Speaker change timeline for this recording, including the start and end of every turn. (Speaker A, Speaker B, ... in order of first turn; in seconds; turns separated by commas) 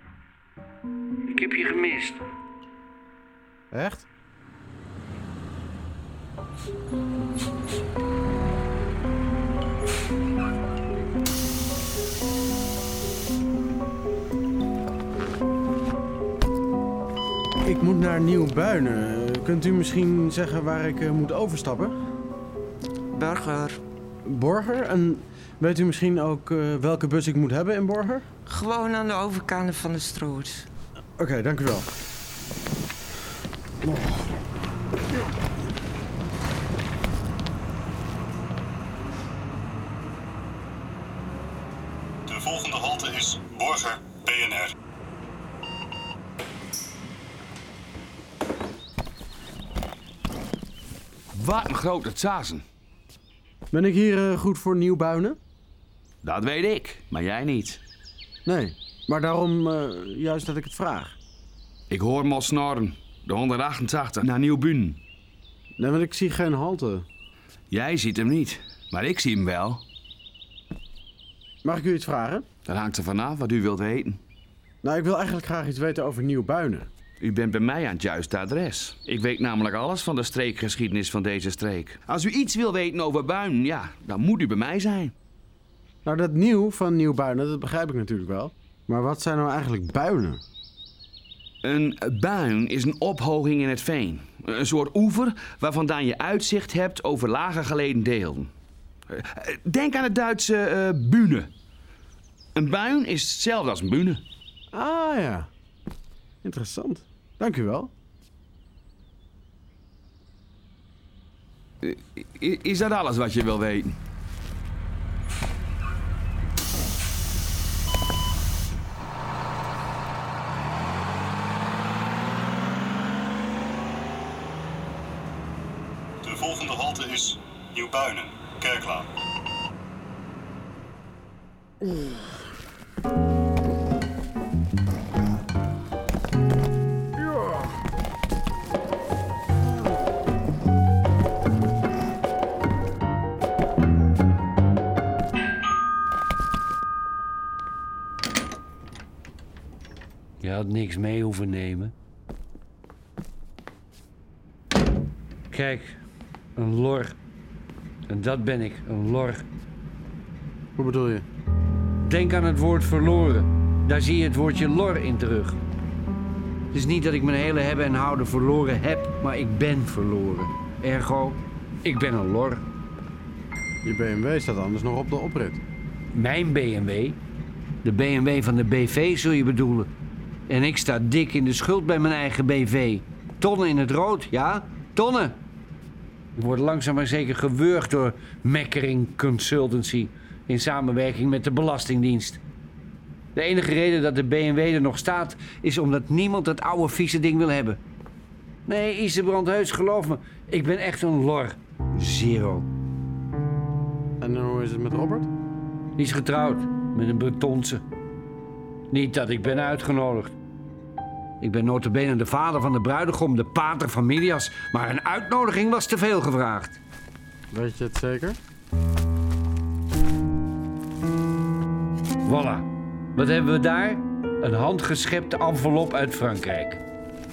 Speaker A: 1.3-2.2, Speaker B: 3.7-4.1, Speaker B: 17.6-22.0, Speaker C: 23.1-23.8, Speaker B: 24.2-28.2, Speaker C: 28.5-30.7, Speaker B: 31.2-31.9, Speaker D: 42.3-44.7, Speaker E: 51.3-52.6, Speaker B: 53.7-55.4, Speaker E: 56.2-57.8, Speaker B: 58.5-61.2, Speaker E: 61.9-65.0, Speaker B: 65.8-67.1, Speaker E: 67.7-69.8, Speaker B: 71.6-72.5, Speaker E: 72.7-74.2, Speaker B: 74.8-76.9, Speaker E: 77.2-85.2, Speaker B: 86.0-90.4, Speaker E: 91.6-98.5, Speaker E: 99.1-101.5, Speaker E: 102.5-104.2, Speaker B: 104.7-105.5, Speaker B: 106.4-107.9, Speaker E: 111.8-114.0, Speaker D: 126.2-129.1, Speaker A: 150.4-151.9, Speaker A: 155.5-156.0, Speaker A: 156.6-157.2, Speaker A: 158.1-159.4, Speaker B: 160.8-161.3, Speaker A: 162.0-165.6, Speaker A: 166.7-172.6, Speaker B: 173.8-175.6, Speaker A: 176.1-177.2, Speaker A: 177.8-179.9, Speaker A: 180.5-185.4, Speaker A: 186.4-192.4, Speaker A: 193.3-197.8, Speaker A: 198.7-202.7, Speaker B: 204.2-205.3, Speaker A: 206.0-207.8, Speaker A: 208.9-210.3, Speaker A: 211.4-216.8, Speaker B: 217.5-218.4, Speaker A: 222.2-226.8